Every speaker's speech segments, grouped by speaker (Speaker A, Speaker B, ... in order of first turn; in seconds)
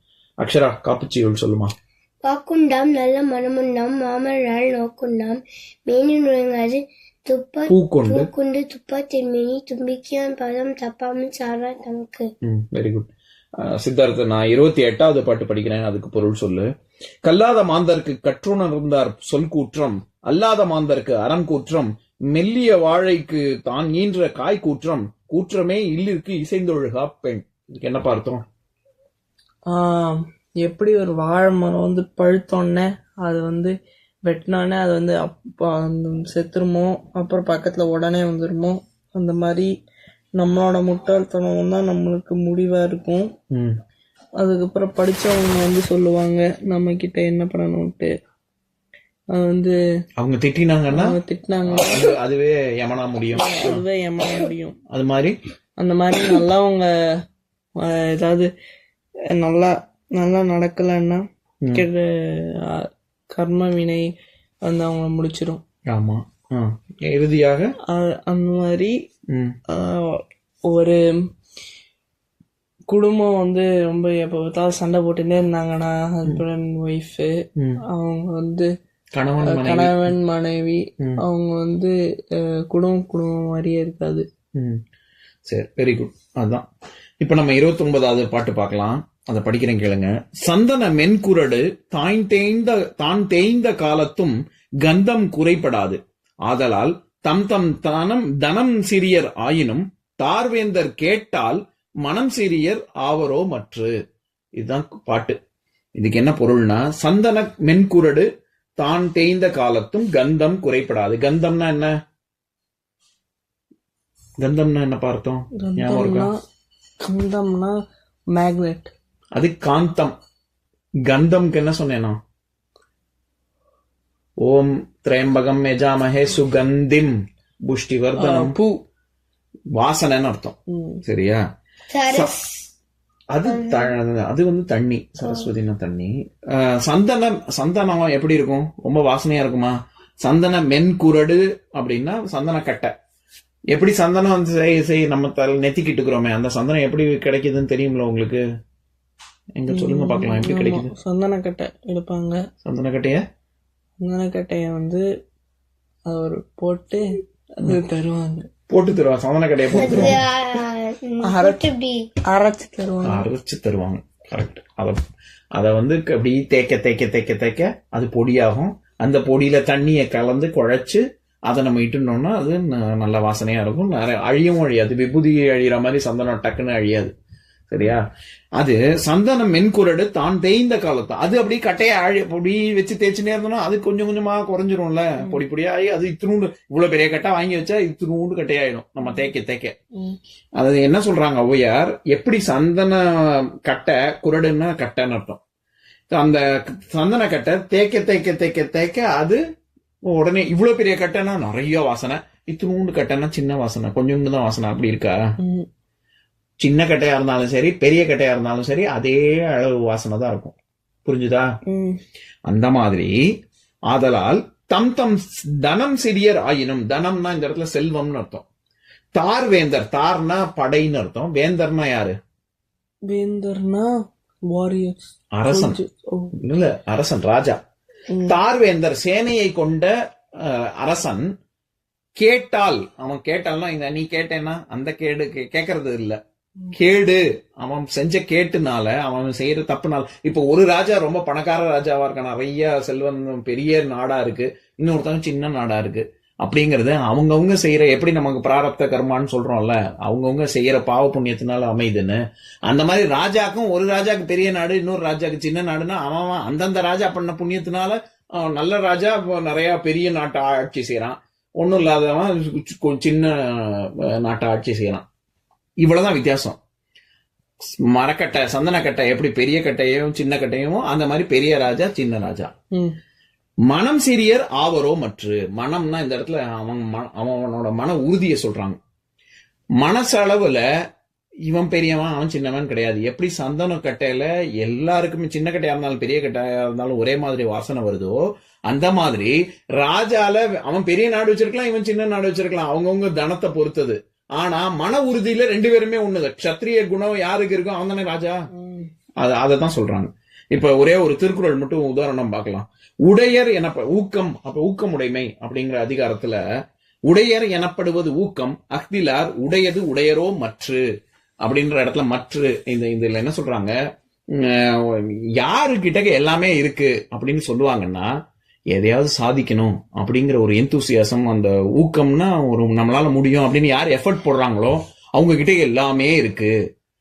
Speaker A: 0.4-1.7, 7.7-8.3, 12.4-13.1, 13.6-16.7, 17.2-28.4, 50.2-51.1, 51.7-53.8, 54.9-55.3, 65.9-67.7, 79.1-80.0, 85.5-86.6, 87.2-103.9, 104.6-105.4, 106.0-108.3, 108.8-111.9, 114.4-116.3, 119.3-120.1, 121.1-122.2, 124.4-127.1, 127.7-128.6, 129.8-131.4, 133.3-142.9, 143.7-148.4, 149.6-150.9, 152.6-153.2, 158.7-160.2, 163.1-165.0, 165.6-177.1, 177.7-178.0, 178.6-189.7, 190.6-195.4, 196.1-199.4, 200.1-205.2, 206.6-211.5, 212.5-213.1, 213.9-218.4, 219.2-222.1, 225.3-225.8, 226.4-227.6, 228.3-229.9, 230.4-231.2, 232.2-236.2, 236.7-252.2, 252.7-265.0, 265.8-266.6, 267.9-272.5, 273.7-278.8, 279.8-280.6, 281.5-298.4, 299.2-306.4, 307.1-310.8, 311.4-313.7, 314.3-318.1, 318.7-326.5
Speaker B: 2.2-12.3, 131.9-132.5, 133.5-133.9, 135.2-135.5, 159.8-162.1
Speaker C: 29.7-33.7, 34.2-39.7, 40.4-43.3, 44.4-48.1, 49.3-49.8, 50.9-52.1, 53.3-54.8, 55.8-56.9, 57.8-58.5, 59.3-61.2, 61.7-64.0, 64.7-65.6, 67.9-68.9, 69.7-71.0, 72.9-77.3, 77.9-78.7, 79.4-84.2, 115.6-116.3, 117.0-117.8, 118.3-118.9, 128.2-128.8, 130.7-131.0, 149.7-152.4, 154.0-155.0, 156.1-157.0, 157.6-158.5, 159.8-160.2, 161.2-161.7, 162.3-163.3, 189.0-189.3, 205.4-205.7, 211.7-212.0, 223.1-223.9, 224.5-226.3, 228.1-228.4, 298.6-298.9